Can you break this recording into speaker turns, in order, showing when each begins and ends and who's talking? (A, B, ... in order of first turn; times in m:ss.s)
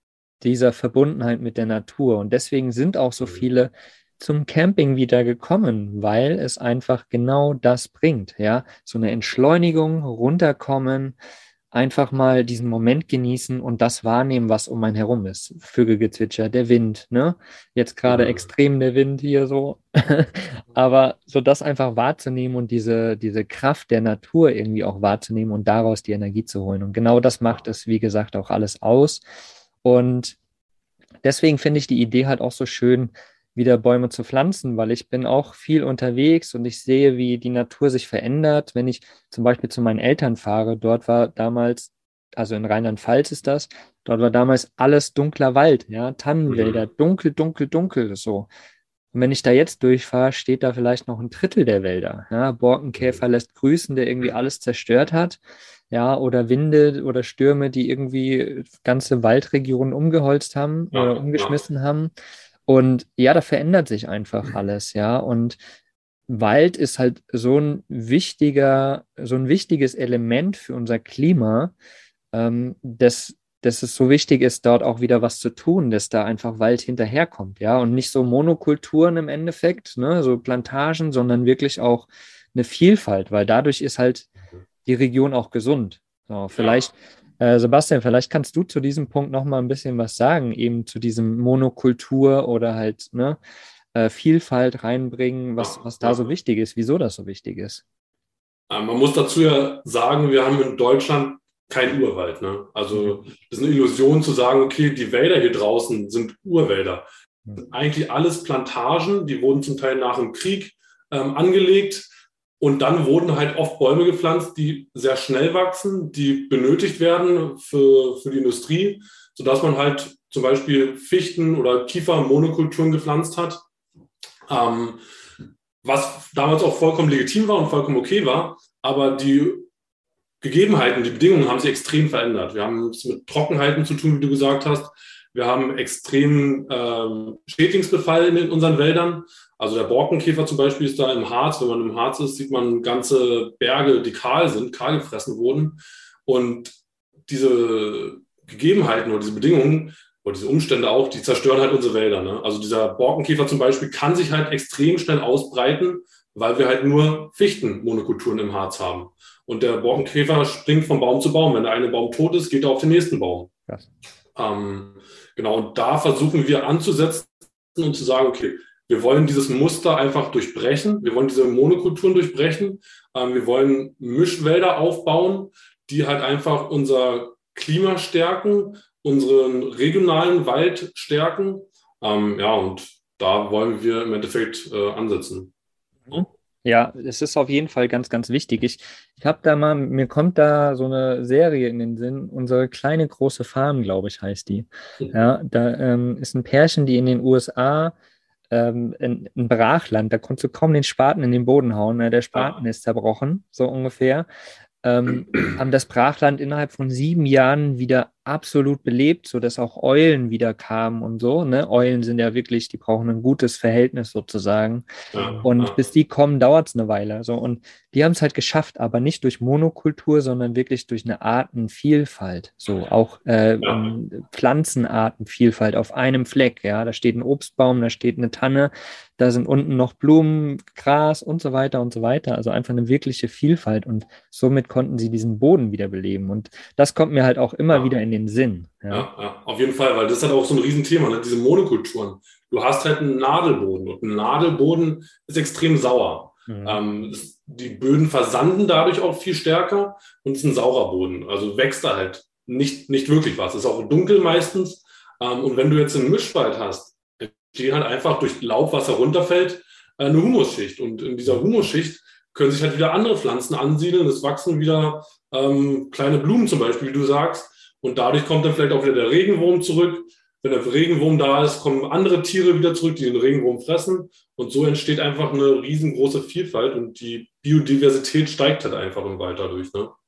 0:00.4-0:11.2 A
0:11.7-0:29.2 A
0:18.1-0:18.4 B
0:29.8-0:30.4 A
0:31.2-0:48.5 A
0:46.5-0:46.8 B
0:49.1-0:55.4 A
0:55.9-1:02.1 A
1:00.9-1:01.6 B
1:02.7-1:05.6 A
1:06.3-1:11.7 A
1:12.3-1:24.3 A
1:24.8-1:33.4 A
1:26.5-1:26.9 B
1:33.9-1:37.8 A
1:35.6-1:36.2 B
1:38.7-1:47.0 B
1:47.6-1:52.0 B
1:52.6-2:03.6 B
2:04.5-2:05.0 B
2:05.8-2:09.7 B
2:10.4-2:26.7 B
2:27.3-2:43.5 B
2:44.3-3:05.5 B
3:06.1-3:17.9 A
3:18.5-3:24.3 A
3:24.8-3:59.1 A
3:35.1-3:35.8 B
3:43.6-3:43.9 B
3:58.9-4:39.9 B
4:06.5-4:06.8 A